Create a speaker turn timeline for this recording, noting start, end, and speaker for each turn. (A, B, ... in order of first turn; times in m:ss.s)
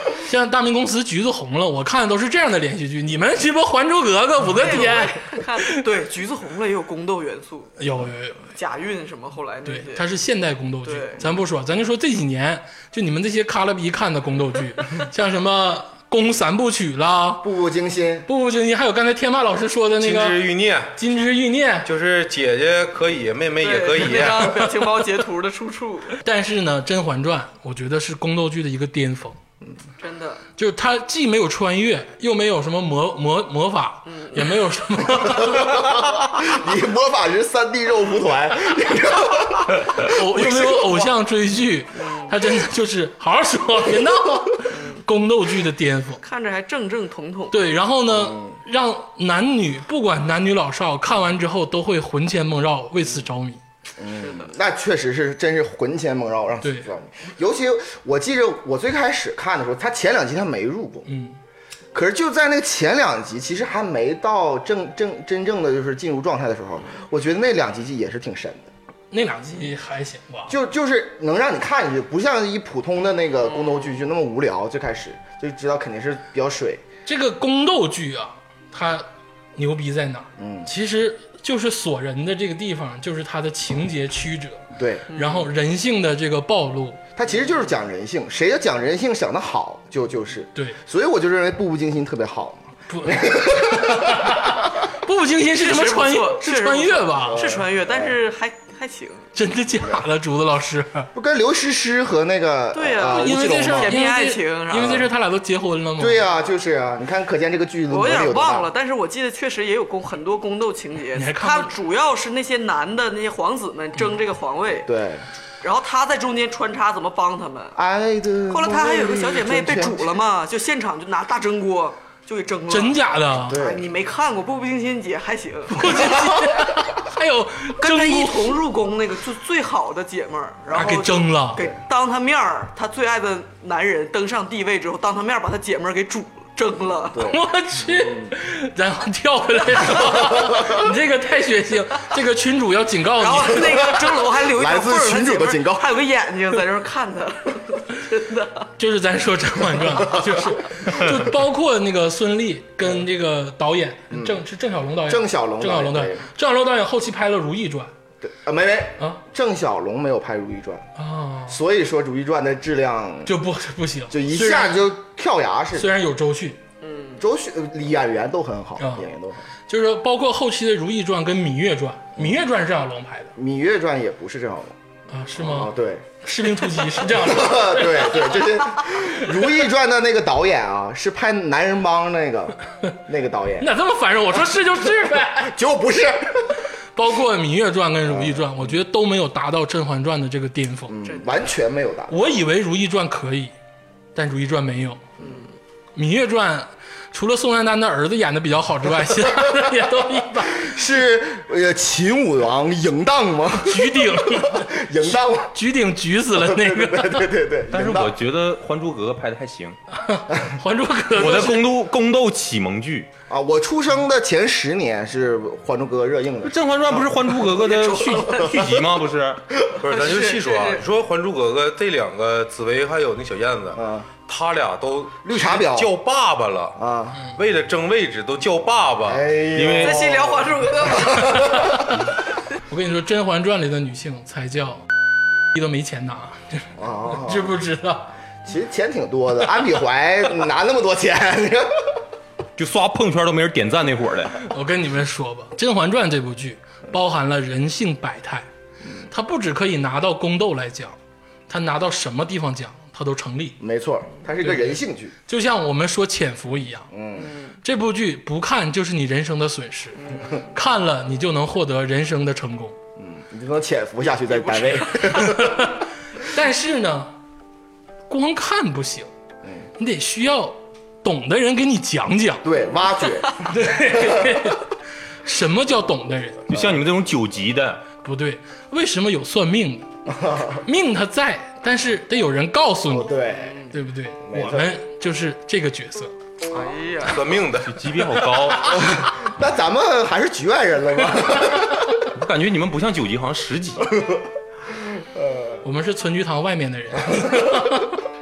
0:00.2-0:05.8 A
0:04.6-0:07.7 B
0:07.8-0:08.5 A
0:08.6-0:10.1 B
0:09.7-0:17.4 A
0:10.9-0:11.2 B
0:17.4-0:18.3 C
0:18.3-0:20.4 A
0:20.0-0:20.9 D
0:21.0-0:21.9 A
0:21.8-0:24.6 D
0:23.6-0:26.2 B
0:24.2-0:24.7 A
0:26.2-0:29.4 A
0:30.0-0:30.4 B
0:30.6-0:36.0 A
0:34.1-0:34.6 B
0:35.5-0:40.6 C
0:40.0-0:46.2 A
0:42.0-0:42.3 B
0:44.7-0:45.0 B
0:46.2-0:47.7 B
0:47.5-0:53.6 A
0:48.1-0:48.6 C
0:54.0-1:01.1 C
0:54.1-0:54.5 B
0:56.6-0:56.9 A
1:01.1-1:01.4 A
1:01.9-1:08.7 C
1:09.1-1:10.5 A
1:10.5-1:16.8 C
1:13.6-1:13.9 B
1:17.1-1:27.0 A
1:20.4-1:20.7 C
1:24.8-1:25.1 C
1:25.1-1:25.5 B
1:27.2-1:34.5 C
1:27.3-1:27.7 B
1:32.9-1:37.4 A
1:35.5-1:39.3 B
1:37.2-1:38.1 C
1:39.4-1:41.1 A
1:41.2-1:44.0 C
1:42.7-1:45.0 B
1:43.1-1:46.2 A
1:44.7-1:45.1 C
1:46.0-1:48.7 C
1:47.9-1:54.9 B
1:51.2-1:51.7 A
1:54.8-1:55.2 C
1:55.6-1:57.8 B
1:57.8-2:00.1 C
1:58.5-2:06.1 B
2:02.7-2:03.6 A
2:03.5-2:03.9 C
2:05.7-2:08.6 A
2:06.0-2:06.6 C
2:07.8-2:17.3 B
2:10.7-2:11.6 A
2:17.1-2:18.3 C
2:17.3-2:24.0 A
2:20.4-2:20.8 C
2:23.2-2:28.7 B
2:23.9-2:25.9 C
2:28.8-2:37.9 A
2:30.3-2:31.0 C
2:34.1-2:34.4 C
2:35.1-2:36.3 C
2:38.2-2:40.9 C
2:41.0-2:41.6 A
2:41.5-2:43.3 C
2:43.3-2:44.8 A
2:44.1-2:45.9 C
2:45.8-2:46.6 A
2:46.8-2:47.2 B
2:47.2-2:49.4 C
2:48.8-2:49.1 A
2:49.7-2:53.3 A
2:52.2-2:52.4 C
2:53.4-2:54.7 C
2:55.1-2:58.3 A
2:55.4-2:56.1 C
2:57.0-3:03.7 C
3:03.6-3:05.6 A
3:05.2-3:06.6 C
3:07.0-3:11.0 A
3:08.0-3:08.7 C
3:10.9-3:12.3 C
3:11.0-3:11.5 B
3:12.1-3:13.5 A
3:14.2-3:15.0 A
3:15.2-3:15.4 B
3:16.0-3:20.7 A
3:19.2-3:19.9 C
3:20.5-3:25.6 C
3:23.6-3:27.3 A
3:26.4-3:28.2 C
3:27.7-3:29.8 E
3:29.9-3:31.7 A
3:31.2-3:33.1 E
3:33.3-3:37.2 C
3:36.4-3:39.4 E
3:37.5-3:38.7 B
3:39.8-3:46.8 D
3:39.9-3:40.8 B
3:43.7-3:44.1 C
3:45.2-3:45.9 C
3:46.8-3:47.2 C
3:47.4-3:49.3 D
3:49.1-3:51.9 C
3:49.5-3:50.0 E
3:49.8-3:51.5 B
3:51.2-3:52.0 A
3:52.7-3:54.8 A
3:55.5-3:58.1 A
3:56.8-3:57.6 C
3:58.4-4:02.0 C
4:02.6-4:04.4 E
4:04.5-4:08.5 A
4:09.1-4:11.0 A
4:11.5-4:13.6 A
4:13.6-4:15.1 C
4:14.4-4:16.9 A
4:16.9-4:17.3 C
4:17.2-4:17.6 B
4:17.6-4:20.0 A
4:20.5-4:22.8 A
4:23.0-4:25.5 C
4:24.2-4:25.4 B
4:25.0-4:27.1 A
4:28.1-4:29.1 A
4:29.8-4:32.4 A
4:32.4-4:34.6 C
4:33.4-4:34.6 A
4:35.2-4:36.5 A
4:36.5-4:37.9 E
4:38.0-4:39.9 A
4:40.1-4:40.6 C
4:40.6-4:43.2 A
4:42.9-4:43.7 C
4:43.3-4:43.7 B
4:43.7-4:46.1 A
4:44.2-4:44.7 C
4:46.5-4:47.2 B
4:47.1-4:47.8 D
4:47.6-4:48.7 E
4:48.6-4:52.0 C
4:52.1-4:54.0 E
4:55.0-4:55.6 C
4:55.6-4:58.0 A